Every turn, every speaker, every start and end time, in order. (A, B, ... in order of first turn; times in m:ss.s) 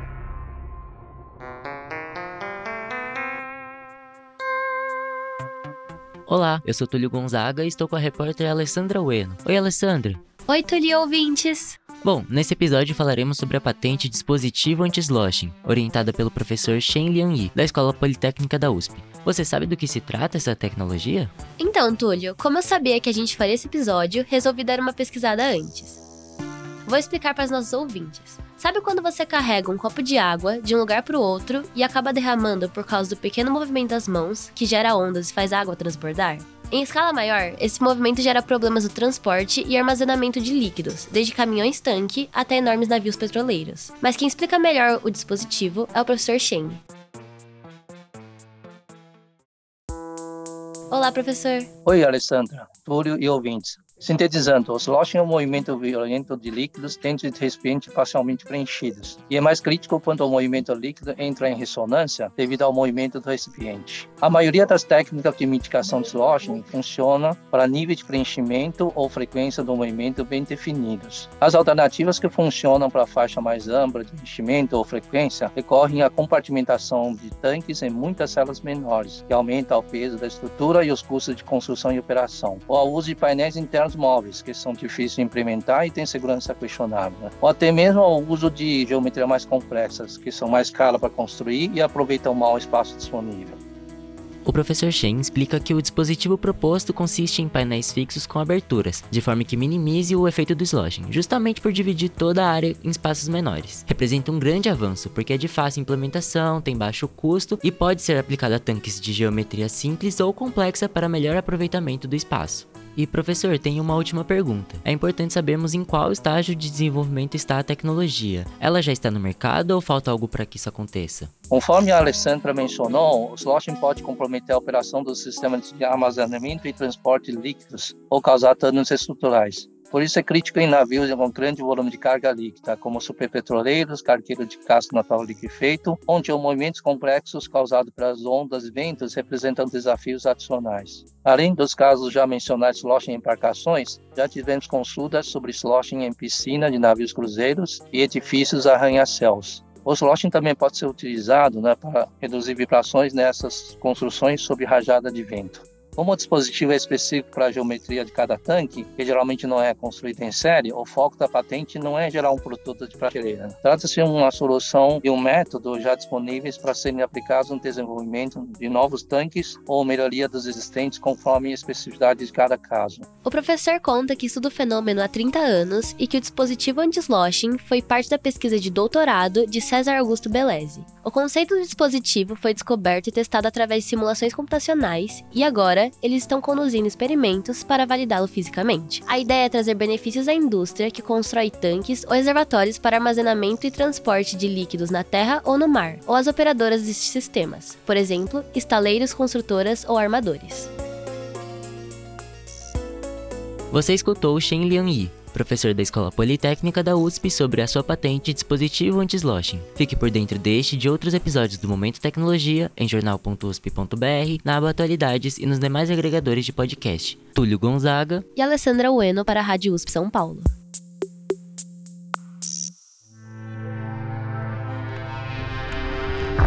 0:06.3-0:10.2 A
0:10.5-0:11.8 B
0:12.0-0:21.3 A
0:21.6-0:26.0 B
0:26.8-0:46.8 B
0:50.9-0:51.7 B
0:51.8-1:33.6 C
1:34.4-2:01.3 A
2:01.5-2:53.0 C
2:53.2-3:20.7 B
3:23.7-3:38.2 A
3:38.4-3:40.5 B